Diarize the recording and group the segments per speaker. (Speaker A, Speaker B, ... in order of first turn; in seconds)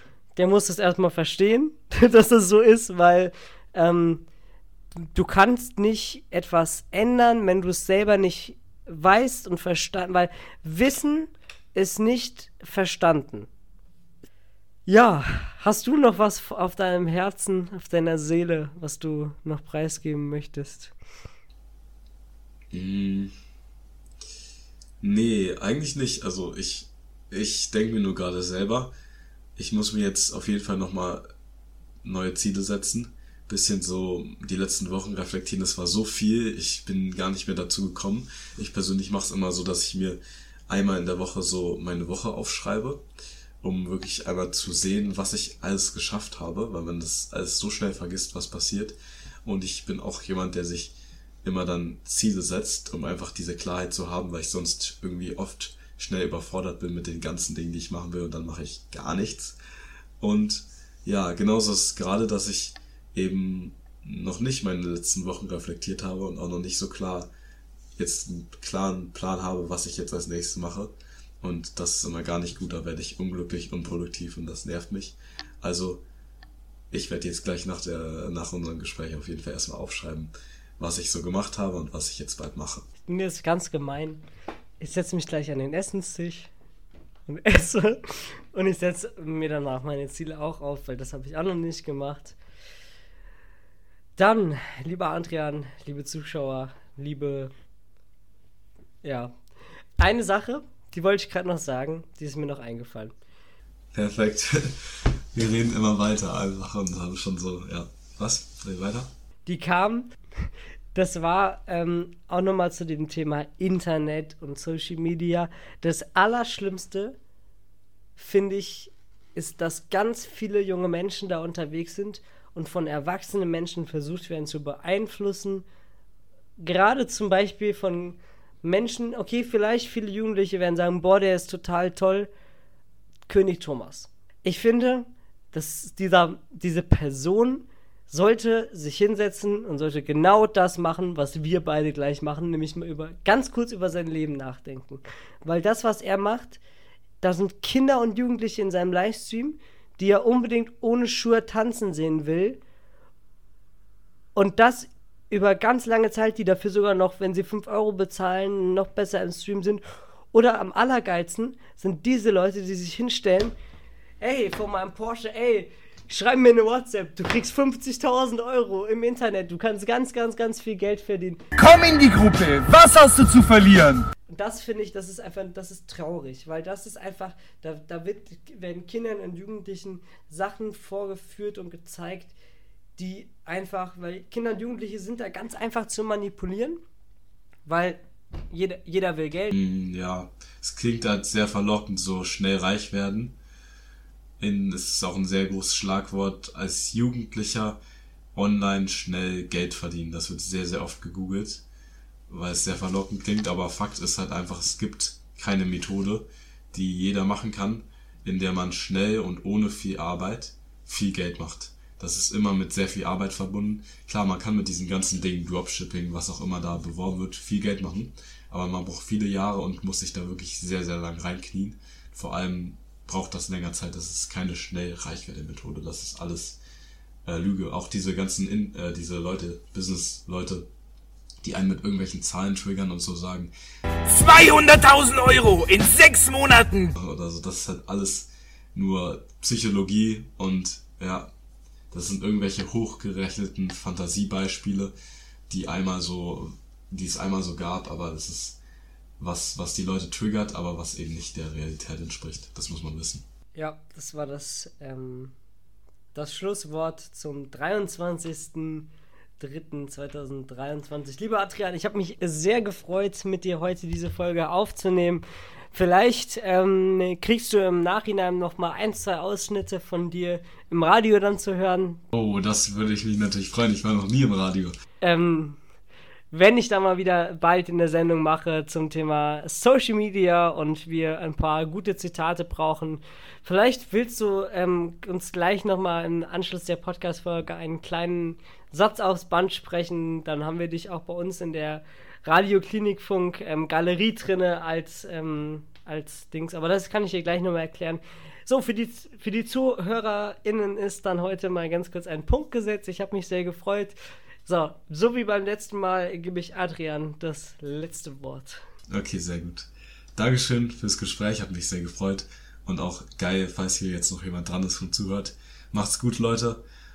Speaker A: 0.3-4.2, 5.0-13.5, 14.9-20.9, 83.1-84.2, 84.8-86.5, 87.3-92.4, 94.2-97.5, 99.0-99.4, 100.0-103.1, 109.5-110.1, 110.9-117.2, 118.2-125.6, 126.6-132.3, 133.3-146.6, 147.2-152.6, 154.3-163.5, 164.2-171.4, 174.3-182.3, 183.0-186.8, 187.7-189.5, 253.6-255.3, 256.1-272.0, 275.0-275.6, 276.3-303.9, 304.4-308.6
Speaker B: 22.7-23.3, 25.0-28.9, 29.6-31.2, 32.0-43.0, 43.6-59.6, 60.2-67.3, 68.0-76.0, 76.9-82.9, 103.9-109.1, 189.5-193.3, 194.4-197.8, 198.3-201.6, 202.3-226.6, 227.2-230.7, 231.4-233.5, 236.9-241.3, 241.9-244.9, 245.5-248.6, 249.2-253.2, 272.1-274.8, 308.9-316.6
Speaker C: 171.6-174.1, 234.1-236.9